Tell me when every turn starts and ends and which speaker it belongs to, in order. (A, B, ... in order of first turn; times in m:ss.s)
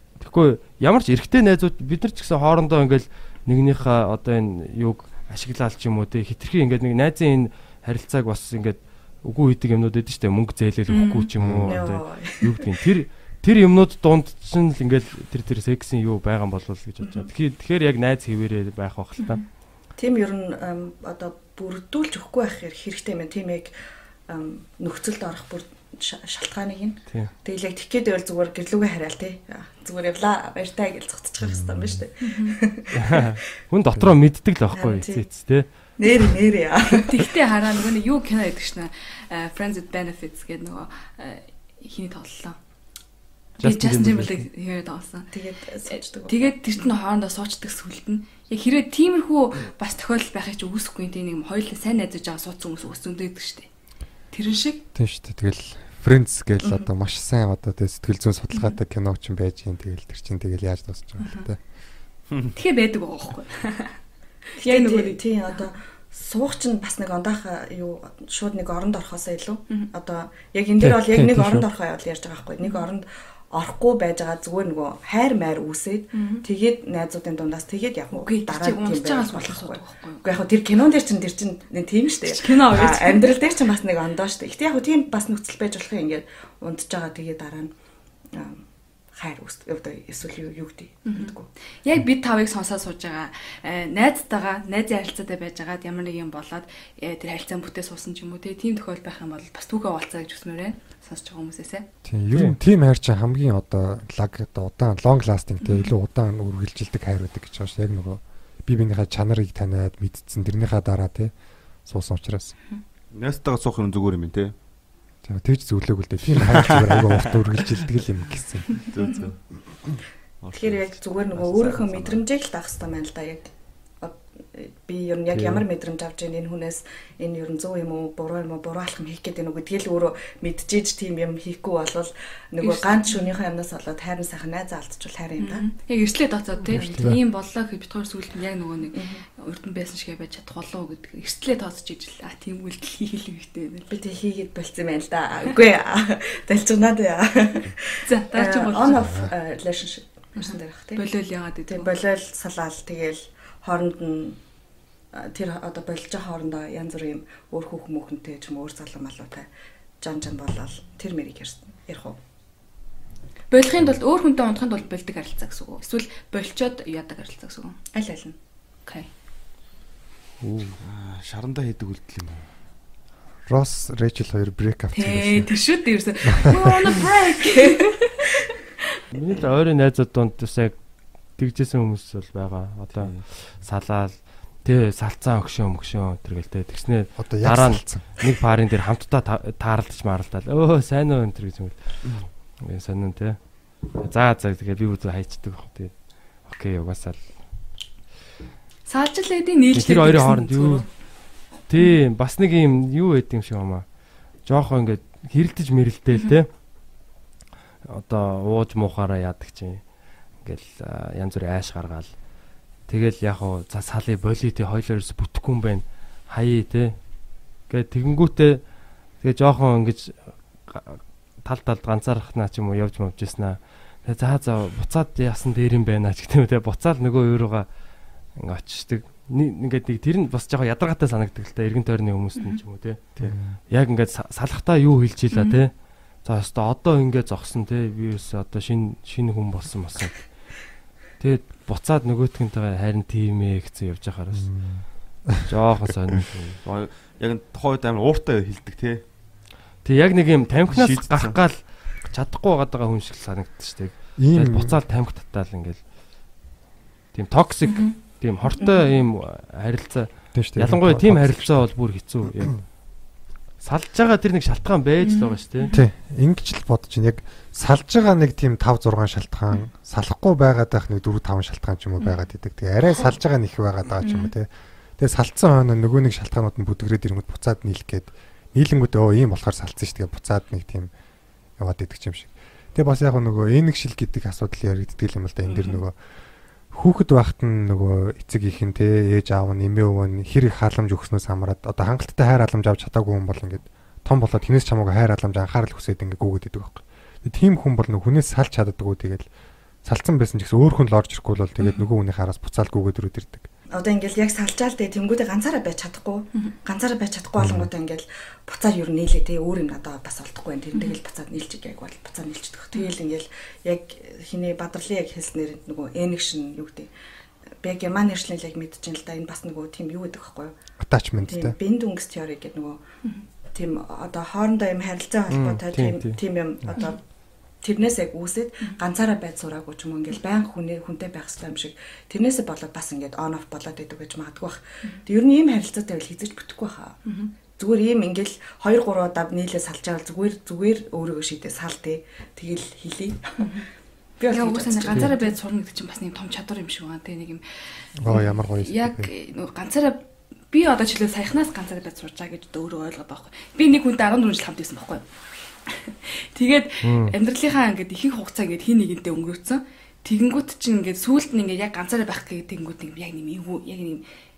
0:00.2-0:19.4 A
0:10.9-0:11.3 B
0:11.4-0:11.9 C
0:11.6-0:12.6 D
0:17.0-0:17.3 D
0:20.0-0:23.7 D
0:24.3-0:33.2 D
0:31.4-0:32.0 C
0:32.2-0:32.6 B
0:32.9-0:35.7 A
0:34.7-0:35.3 D
0:36.0-0:37.3 D
0:36.9-0:42.6 B
0:43.6-0:45.3 B
0:43.6-0:44.5 A
0:45.3-0:46.5 D
0:45.9-0:53.7 B
0:54.3-0:54.8 B
0:55.0-1:01.6 C
1:01.2-1:01.5 B
1:02.6-1:04.0 B
1:04.6-1:05.7 B
1:04.6-1:27.7 D
1:10.8-1:11.7 C
1:16.1-1:16.4 B
1:18.1-1:20.2 B
1:22.2-1:23.5 B
1:28.3-1:28.6 D
1:29.2-1:31.5 D
1:31.1-1:41.9 B
1:42.0-1:51.3 C
1:45.6-1:45.9 B
1:51.8-1:52.6 C
1:53.1-1:54.5 E
1:55.2-1:58.8 C
1:56.5-1:57.3 E
1:58.7-1:59.4 E
2:00.4-2:02.2 E
2:00.5-2:03.5 D
2:04.0-2:15.7 D
2:05.3-2:05.6 A
2:12.6-2:13.3 B
2:15.4-2:24.0 B
2:16.7-2:17.1 D
2:16.8-2:17.2 C
2:18.9-2:19.2 D
2:23.9-2:31.0 D
2:28.0-2:29.2 B
2:29.0-2:29.3 C
2:30.4-2:32.0 B
2:31.7-2:34.4 D
2:35.1-2:39.5 D
2:40.0-2:42.2 D
2:43.5-2:47.8 B
2:48.0-2:48.4 D
2:50.4-2:50.8 A
2:50.8-2:52.5 E
2:53.5-2:55.5 C
2:54.9-2:58.3 B
2:56.3-2:57.0 C
2:59.1-3:00.8 A
3:01.4-3:11.8 A
3:03.0-3:03.2 E
3:07.2-3:08.1 C
3:12.6-3:17.3 A
3:18.9-3:20.9 B
3:19.7-3:20.8 A
3:21.7-3:23.8 A
3:24.5-3:26.5 A
3:27.9-3:29.8 A
3:30.4-3:32.1 A
3:32.9-3:37.0 A
3:37.7-3:38.6 A
3:39.2-3:47.7 A
3:48.4-4:00.3 A
3:53.2-3:53.6 C
3:55.3-3:55.6 B
4:01.2-4:04.5 A
4:04.3-4:05.5 C
4:05.5-4:06.6 A
4:06.6-4:09.0 E
4:09.8-4:15.8 A
4:10.7-4:11.4 E
4:14.2-4:14.8 C
4:17.1-4:22.6 A
4:17.7-4:18.0 B
4:18.6-4:18.9 B
4:20.3-4:21.7 C
4:22.3-4:22.6 C
4:23.6-4:25.7 A
4:25.0-4:25.8 B
4:25.7-4:34.5 C
4:34.0-4:34.3 B
4:35.0-4:40.9 C
4:41.6-4:45.9 C
4:46.7-4:59.3 C
4:59.8-5:03.5 C
5:03.7-5:16.9 D
5:07.4-5:07.7 C
5:17.6-5:20.5 D
5:20.8-5:21.6 C
5:21.2-5:22.8 D
5:23.5-5:27.0 D
5:25.3-5:26.2 A
5:27.6-5:37.0 D
5:37.1-5:37.3 B
5:37.6-5:43.5 D
5:43.4-5:43.7 B
5:44.2-5:45.4 D
5:44.3-5:55.0 B
5:48.0-5:49.1 C
5:55.7-6:04.0 B
5:56.8-5:57.2 A